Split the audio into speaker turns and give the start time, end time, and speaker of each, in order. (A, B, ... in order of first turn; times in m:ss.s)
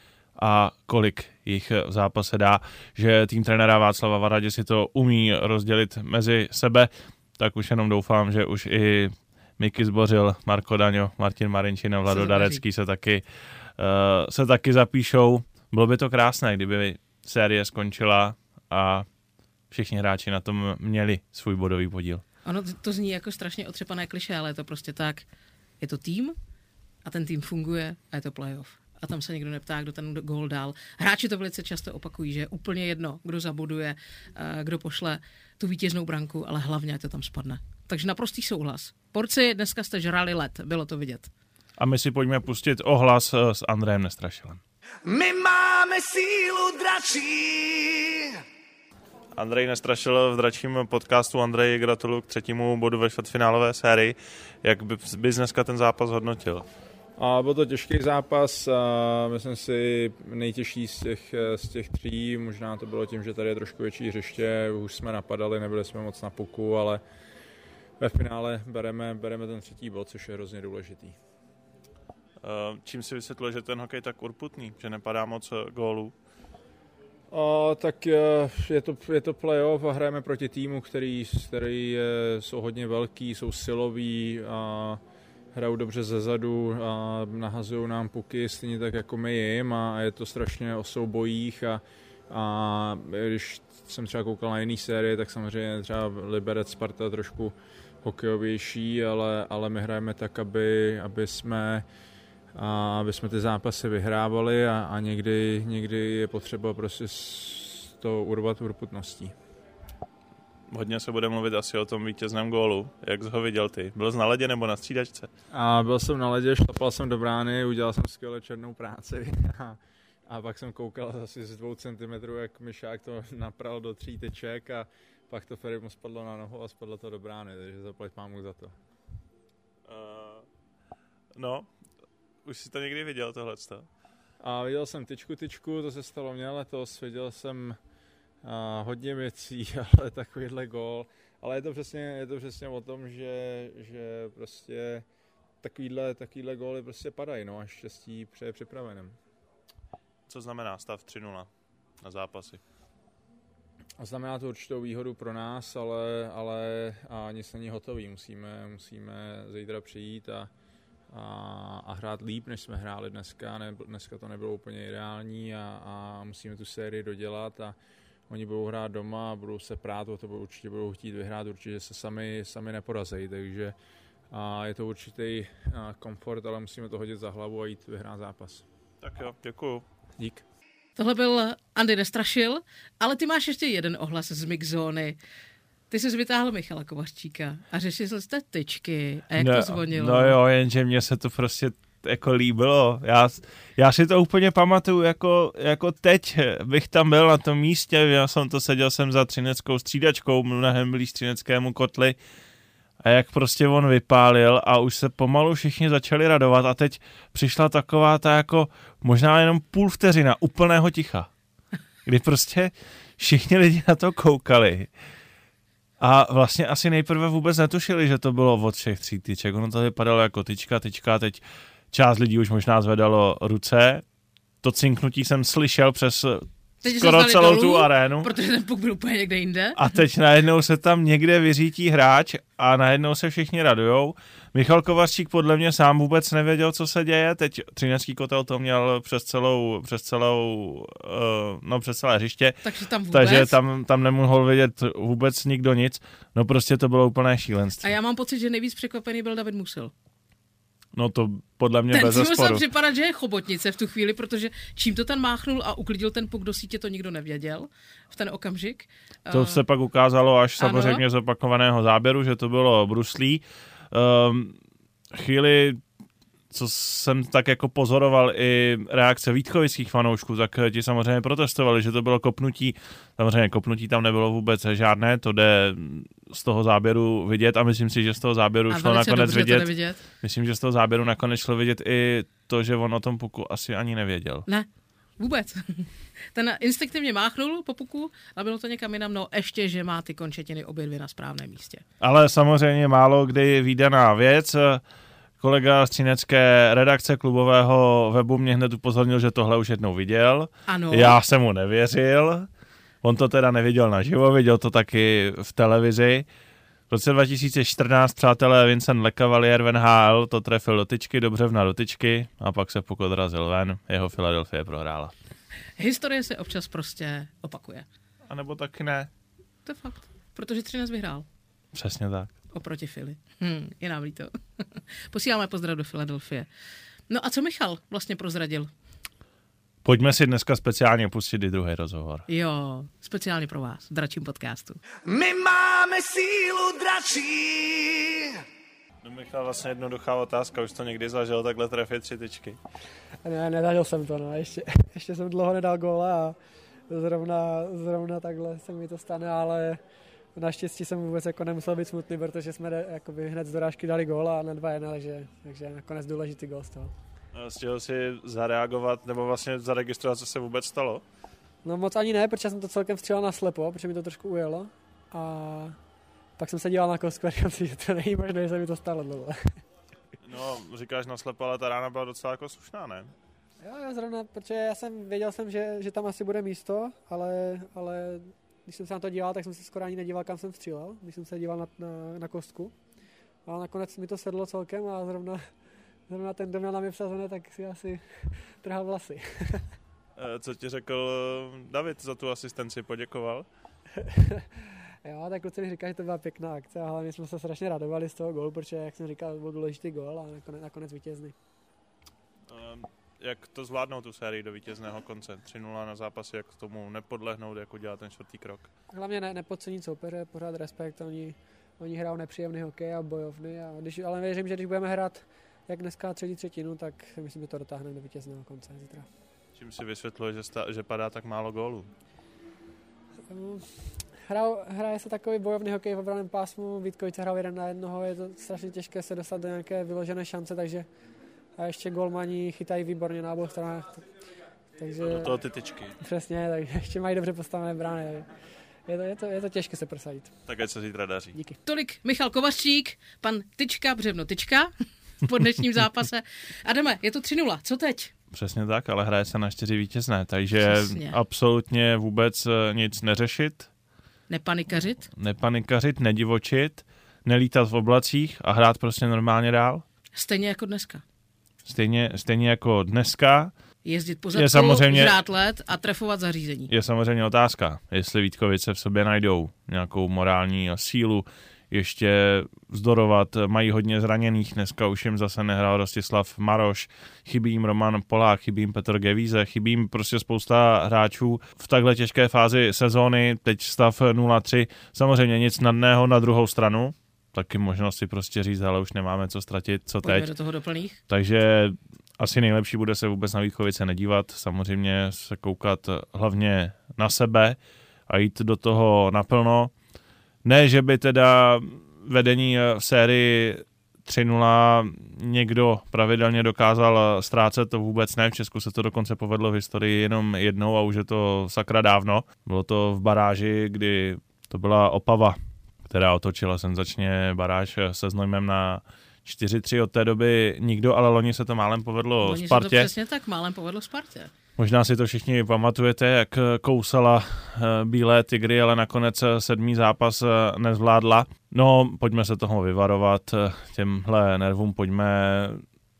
0:00.4-0:19.0 A
0:12.1-0:12.6 B
0:19.7-0:22.2 A
0:22.4-0:25.2 B
0:25.8-0:26.3 B
0:27.0-0:41.3 B
0:41.8-0:44.6 A
0:45.0-0:48.3 C
0:49.4-0:56.6 A
0:57.2-1:07.0 D
1:08.0-1:11.2 D
1:12.4-1:16.1 A
1:17.3-1:25.0 D
1:25.5-1:41.8 D
1:42.5-1:49.3 D
1:50.7-1:55.3 A
1:55.5-2:08.8 D
2:09.9-2:10.4 A
2:11.4-2:11.7 A
2:12.4-2:13.9 A
2:14.4-2:17.8 D
2:18.4-2:25.0 D
2:25.6-2:29.2 D
2:30.3-2:31.5 A
2:32.0-2:32.6 A
2:34.0-2:40.5 D
2:41.1-2:47.8 D
2:48.3-2:53.7 D
2:54.3-2:58.6 D
2:59.0-2:59.8 A
3:00.2-3:00.4 D
3:01.0-3:05.2 B
3:05.9-3:10.4 B
3:09.4-3:22.2 A
3:23.0-3:31.3 A
3:32.0-3:34.9 A
3:36.0-3:44.0 A
3:44.6-3:48.3 A
3:46.8-3:49.8 B
3:49.8-4:02.6 A
4:02.6-4:03.5 B
4:03.1-4:07.9 A
4:07.8-4:09.9 B
4:11.0-4:12.6 A
4:11.9-4:19.6 B
4:19.3-4:24.6 A
4:20.6-4:21.0 B
4:25.1-4:25.8 A
4:26.5-4:44.4 A
4:38.7-4:40.0 B
4:44.5-4:51.8 B
4:52.0-4:54.8 A
4:55.4-5:02.5 A
5:00.7-5:01.2 B
5:03.0-5:06.2 A
5:06.9-5:15.1 A
5:15.8-5:17.8 B
5:18.3-5:19.1 A
5:19.6-5:21.2 B
5:21.7-5:22.3 A
5:22.5-5:26.5 B
5:27.1-5:28.7 B
5:29.8-5:32.2 A
5:32.3-5:34.8 B
5:35.0-5:38.4 C
5:39.0-5:42.6 A
5:43.2-5:46.4 E
5:46.9-5:49.8 E
5:50.3-5:56.9 E
5:57.3-6:01.0 A
6:01.6-6:05.8 E
6:06.4-6:09.4 E
6:10.2-6:13.1 A
6:13.6-6:22.8 E
6:23.4-6:25.4 E
6:26.1-6:29.6 E
6:30.2-6:33.4 A
6:34.0-6:34.4 E
6:35.0-6:41.3 E
6:42.5-6:48.7 A
6:48.9-6:59.1 E
6:59.6-7:01.9 A
7:03.3-7:10.8 E
7:11.6-7:14.0 E
7:14.8-7:15.3 E
7:15.0-7:16.0 A
7:16.0-7:18.3 E
7:18.9-7:20.3 E
7:20.5-7:21.3 A
7:21.6-7:24.7 B
7:25.2-7:28.1 B
7:28.3-7:33.7 A
7:30.6-7:31.2 B
7:34.3-7:35.1 B
7:35.2-7:39.8 A
7:40.1-7:41.0 B
7:41.6-7:43.5 A
7:43.8-7:46.7 B
7:44.3-7:45.2 A
7:46.7-8:10.3 A
8:10.0-8:11.0 B
8:11.1-8:19.7 A
8:20.4-8:42.9 A
8:42.2-8:44.3 B
8:44.6-8:55.6 A